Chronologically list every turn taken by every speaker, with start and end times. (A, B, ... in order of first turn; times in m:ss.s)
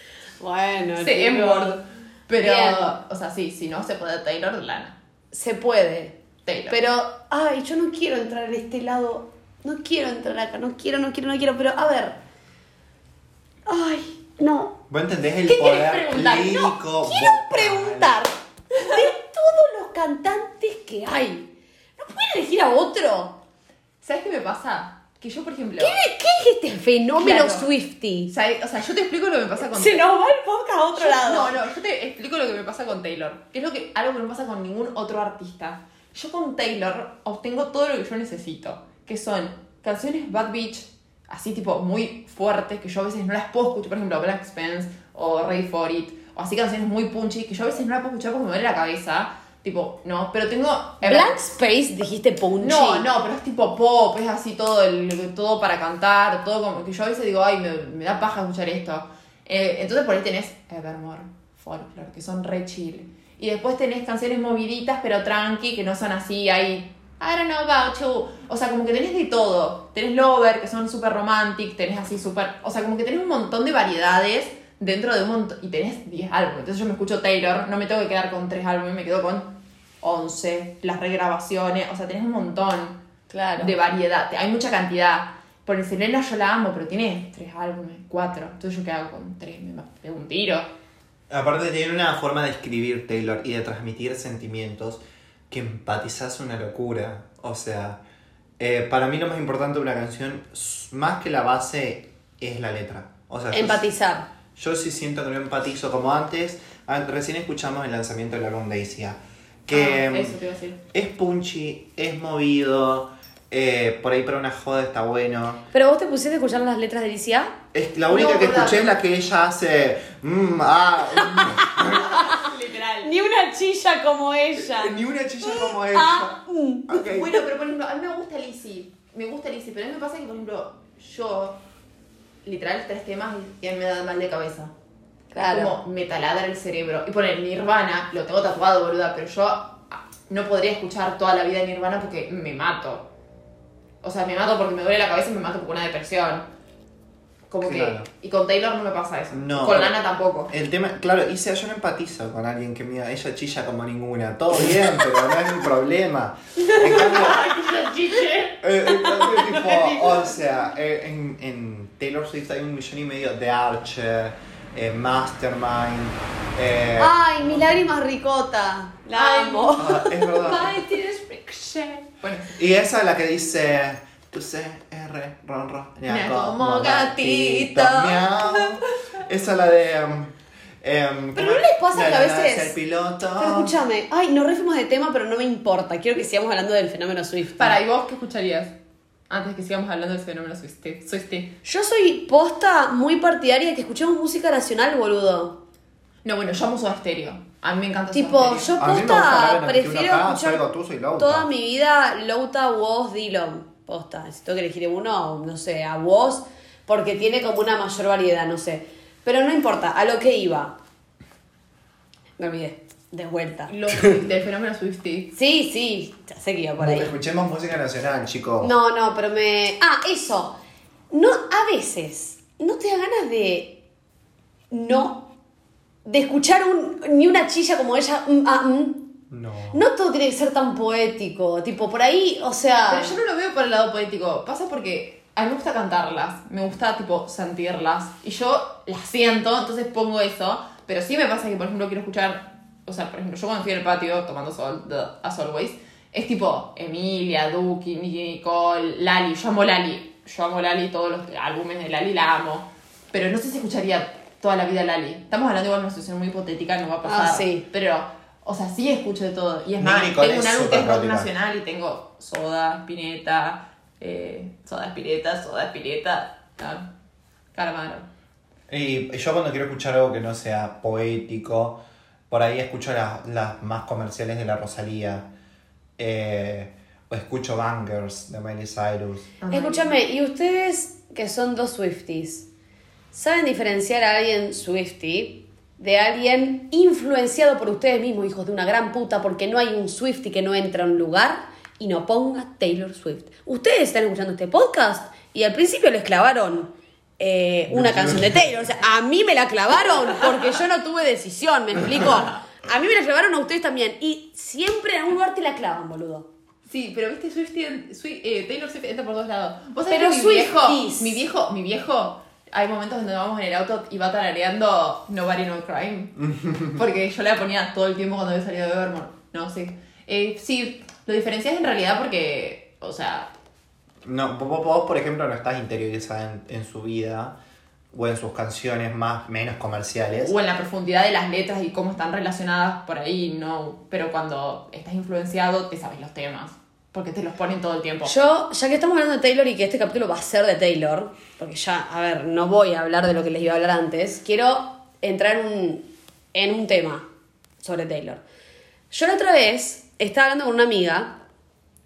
0:00.4-0:01.8 A
0:01.0-0:05.0 B
0:02.4-0:02.9 A
0:05.3-0:06.2 A
0:06.4-0:06.8 B
0:06.7-0:12.2 A
0:13.7-0:14.8 A
0:14.9-0:18.2 C
0:15.5-0:16.7 B
0:17.0-0:23.4 A
0:24.0-0:26.0 B
0:25.8-0:28.3 A
0:27.2-0:27.7 B
0:28.3-0:30.1 B
0:29.6-0:31.5 A
0:30.9-0:51.4 B
0:51.0-0:53.1 A
0:52.6-1:23.0 B
1:23.3-1:23.7 A
1:23.6-1:30.7 B
1:31.3-1:38.0 C
1:38.6-1:43.8 C
1:43.5-1:44.3 A
1:44.6-1:50.4 C
1:49.7-1:50.8 B
1:50.9-1:55.6 C
1:55.7-1:57.6 A
1:57.7-2:02.1 C
1:58.1-1:58.9 B
2:01.2-2:02.4 A
2:01.8-2:03.1 B
2:03.0-2:06.9 A
2:04.6-2:07.4 C
2:06.9-2:11.6 B
2:12.4-2:14.7 B
2:15.3-2:15.8 A
2:15.4-2:23.1 B
2:24.0-2:26.5 B
2:27.5-2:30.5 B
2:27.6-2:28.1 C
2:29.3-2:30.0 C
2:30.5-2:37.5 C
2:36.6-2:38.6 B
2:38.6-2:47.8 C
2:39.6-2:39.9 B
2:47.0-2:50.1 A
2:49.1-2:52.6 B
2:49.8-2:50.8 C
2:52.6-3:03.8 C
2:56.1-2:58.8 B
3:01.3-3:02.7 A
3:03.4-3:07.8 A
3:07.6-3:08.7 B
3:09.3-3:11.5 B
3:11.6-3:15.6 A
3:16.2-3:18.7 B
3:18.1-3:20.6 A
3:18.8-3:21.5 C
3:21.2-3:30.8 A
3:32.4-3:33.7 A
3:33.7-3:35.3 B
3:35.3-3:37.1 A
3:36.8-3:38.7 C
3:38.6-3:40.6 A
3:41.1-3:43.8 A
3:44.7-3:45.3 A
3:46.0-3:49.1 A
3:49.3-3:49.8 C
3:49.7-3:53.2 A
3:52.9-4:26.9 B
4:17.0-4:17.6 A
4:19.8-4:21.3 C
4:27.5-4:28.1 B
4:28.7-4:35.3 C
4:36.0-4:39.3 C
4:39.4-4:39.9 B
4:39.5-4:42.5 A
4:43.1-5:06.3 A
4:57.7-4:58.5 C
5:06.6-5:23.3 B
5:09.9-5:11.2 A
5:16.2-5:16.8 C
5:24.0-5:27.4 C
5:27.9-5:30.3 C
5:30.2-5:38.1 B
5:38.0-5:47.0 A
5:47.6-5:48.2 A
5:48.9-5:51.2 A